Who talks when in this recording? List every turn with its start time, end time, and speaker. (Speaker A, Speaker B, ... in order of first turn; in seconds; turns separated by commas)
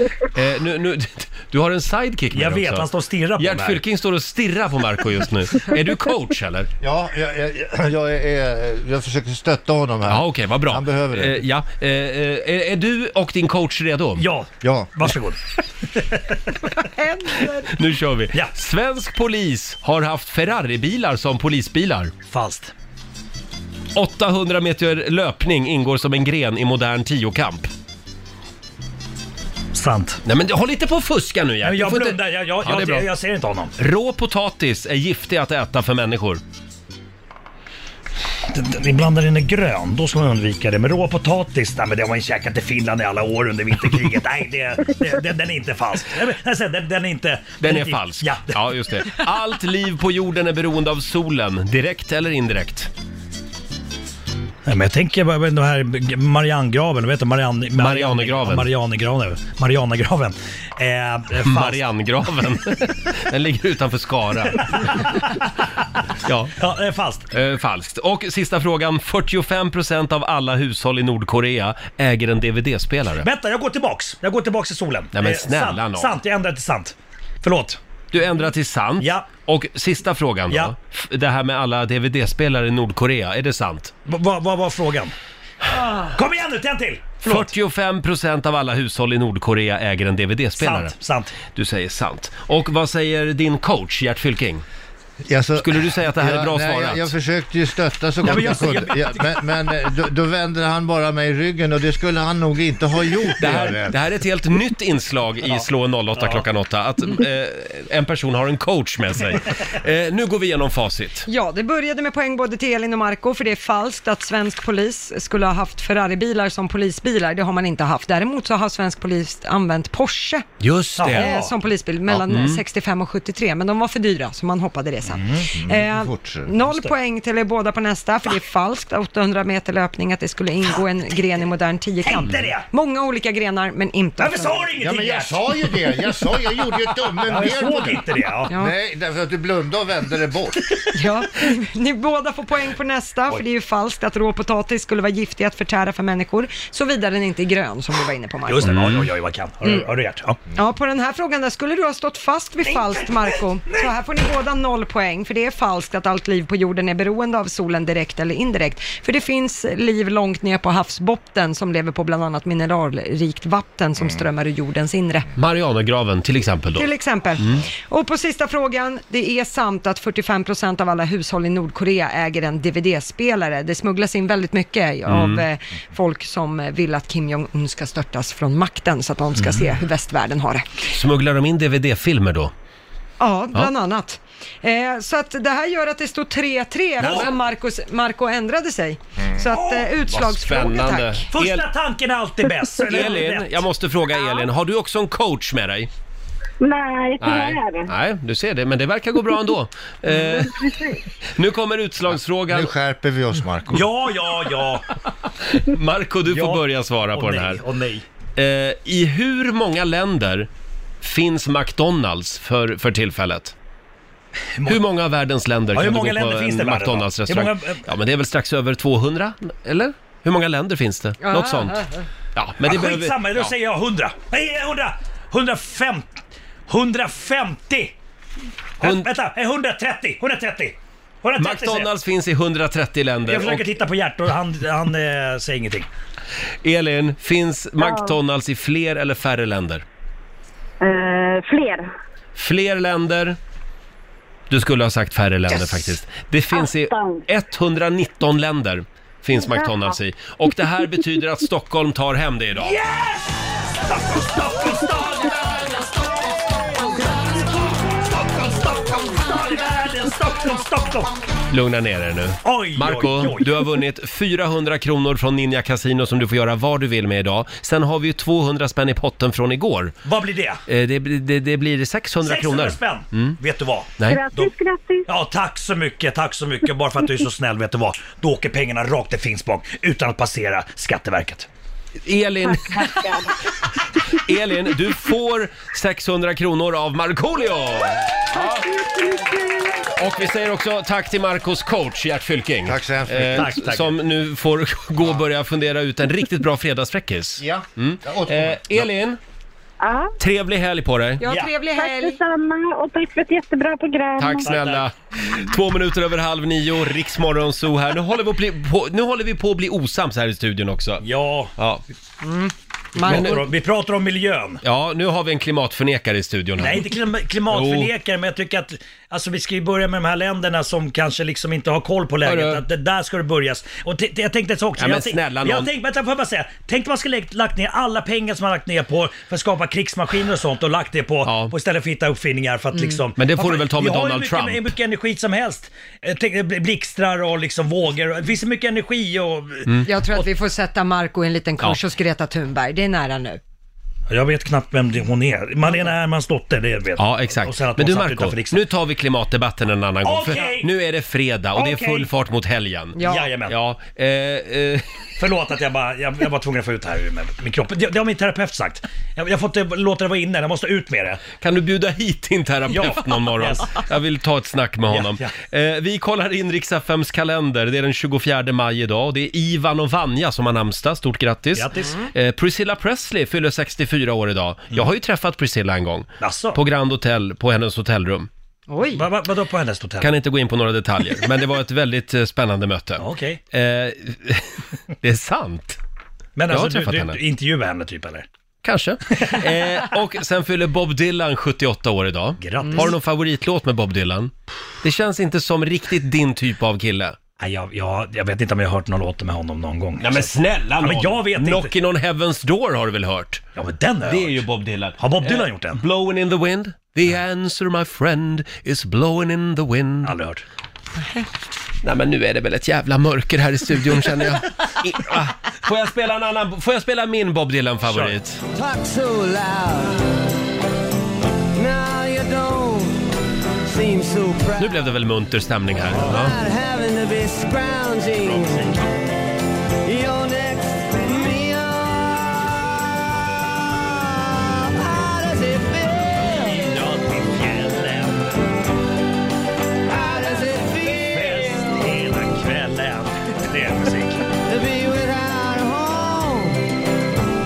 Speaker A: 0.3-6.7, Speaker B: 2.3-3.8, Speaker C: 6.8-11.4, Speaker A: 10.1-14.2, Speaker B: 14.2-15.4, Speaker C: 14.6-14.9, Speaker B: 15.9-16.4, Speaker D: 16.7-17.7, Speaker A: 17.7-22.1, Speaker B: 22.3-22.7, Speaker A: 23.9-27.7, Speaker B: 29.7-30.2, Speaker A: 30.2-33.1, Speaker B: 31.6-33.7, Speaker A: 33.8-36.4, Speaker B: 38.5-48.6, Speaker A: 47.6-52.9, Speaker B: 54.6-61.8, Speaker A: 57.8-58.7, Speaker A: 61.4-65.3, Speaker A: 66.2-66.5, Speaker B: 66.6-67.2, Speaker A: 67.3-73.3, Speaker B: 73.2-77.8, Speaker A: 75.1-76.2, Speaker A: 78.1-83.9, Speaker B: 79.0-79.3, Speaker B: 84.0-85.1, Speaker B: 85.9-87.5, Speaker A: 87.2-94.6, Speaker B: 90.6-91.4, Speaker C: 95.2-104.0, Speaker A: 95.6-97.1, Speaker B: 98.2-99.1, Speaker A: 98.2-98.7, Speaker A: 103.4-111.3, Speaker B: 105.5-106.4, Speaker D: 111.3-120.5, Speaker A: 120.6-121.4, Speaker B: 121.0-121.5, Speaker D: 121.0-134.7, Speaker A: 122.1-122.6, Speaker B: 125.1-125.5, Speaker C: 125.5-126.5, Speaker B: 132.0-132.7, Speaker B: 134.2-135.8, Speaker C: 134.8-140.6, Speaker B: 137.2-138.6, Speaker D: 140.9-148.8, Speaker B: 148.4-150.4, Speaker A: 148.6-149.1, Speaker D: 149.6-149.9, Speaker D: 150.5-165.3, Speaker B: 152.6-153.9, Speaker A: 165.3-167.6, Speaker D: 166.7-180.7, Speaker A: 175.1-175.4, Speaker B: 179.4-179.7, Speaker A: 180.9-182.5, Speaker D: 183.2-191.3, Speaker B: 187.0-187.3, Speaker B: 189.5-189.9, Speaker A: 190.1-191.7, Speaker B: 191.3-193.6, Speaker A: 192.8-195.9, Speaker E: 196.6-197.9, Speaker A: 197.2-202.7, Speaker E: 200.3-200.9, Speaker C: 202.5-203.8, Speaker B: 203.7-204.8, Speaker A: 205.5-207.6, Speaker B: 206.3-208.0, Speaker A: 208.3-210.5, Speaker A: 211.0-213.5, Speaker A: 214.7-221.8, Speaker B: 215.7-217.8, Speaker D: 221.2-222.0, Speaker A: 222.3-223.5, Speaker B: 222.6-227.9, Speaker B: 228.8-231.9, Speaker A: 228.8-229.1, Speaker A: 231.4-233.7, Speaker B: 233.2-235.9, Speaker A: 236.6-239.8, Speaker E: 237.8-238.2, Speaker E: 240.8-241.9, Speaker A: 242.3-243.4, Speaker A: 244.5-252.8, Speaker E: 245.5-245.8, Speaker E: 246.5-247.2, Speaker E: 249.5-249.9, Speaker B: 252.6-261.1, Speaker A: 261.5-269.9, Speaker B: 262.4-263.6, Speaker B: 270.0-270.6, Speaker A: 270.7-273.4, Speaker B: 272.2-274.5, Speaker A: 274.0-274.2, Speaker E: 274.0-275.1, Speaker B: 275.1-281.5, Speaker A: 282.0-283.1, Speaker E: 282.5-283.3, Speaker A: 284.1-288.7, Speaker E: 288.3-289.9, Speaker A: 289.9-299.2, Speaker C: 292.6-293.5, Speaker B: 293.2-293.9, Speaker C: 297.4-298.8, Speaker E: 299.8-300.1, Speaker A: 300.2-301.2, Speaker D: 301.2-302.2, Speaker B: 301.2-301.5, Speaker E: 301.7-304.5, Speaker A: 304.2-311.0, Speaker B: 304.4-304.9, Speaker B: 311.0-311.5, Speaker A: 311.6-311.8, Speaker D: 312.2-313.4, Speaker B: 313.0-314.6, Speaker A: 313.0-313.4, Speaker A: 314.6-317.9, Speaker B: 316.6-340.2, Speaker A: 322.2-322.6, Speaker A: 324.8-325.7, Speaker A: 331.2-331.5, Speaker A: 333.2-334.7, Speaker D: 339.8-343.4, Speaker B: 344.1-348.6, Speaker A: 347.0-354.9, Speaker B: 350.0-350.7, Speaker B: 351.5-352.1, Speaker D: 352.9-353.3, Speaker B: 353.0-353.6, Speaker B: 355.2-361.3, Speaker A: 361.3-378.3, Speaker B: 362.7-363.8, Speaker B: 364.9-365.3, Speaker B: 371.5-372.1, Speaker D: 371.8-372.1, Speaker B: 376.2-376.6, Speaker D: 378.7-379.1, Speaker B: 378.9-380.1, Speaker A: 380.0-385.8, Speaker B: 383.0-383.4, Speaker B: 386.4-388.2, Speaker A: 386.5-387.2, Speaker A: 388.6-397.2, Speaker B: 389.1-389.4, Speaker B: 392.4-392.9, Speaker D: 392.6-392.9, Speaker B: 397.4-401.7, Speaker A: 400.0-403.4, Speaker B: 403.6-404.4, Speaker A: 404.1-410.2, Speaker B: 405.0-405.8, Speaker B: 410.0-410.4, Speaker D: 411.0-411.2, Speaker A: 411.8-418.4, Speaker B: 417.9-418.2, Speaker F: 418.5-420.0, Speaker F: 421.5-423.0, Speaker F: 423.7-424.9, Speaker A: 424.6-426.3, Speaker F: 425.9-428.8, Speaker B: 428.3-428.8, Speaker F: 429.8-432.6, Speaker F: 433.3-436.7, Speaker B: 436.5-438.3, Speaker F: 439.9-442.0, Speaker B: 440.9-444.2, Speaker F: 444.4-446.6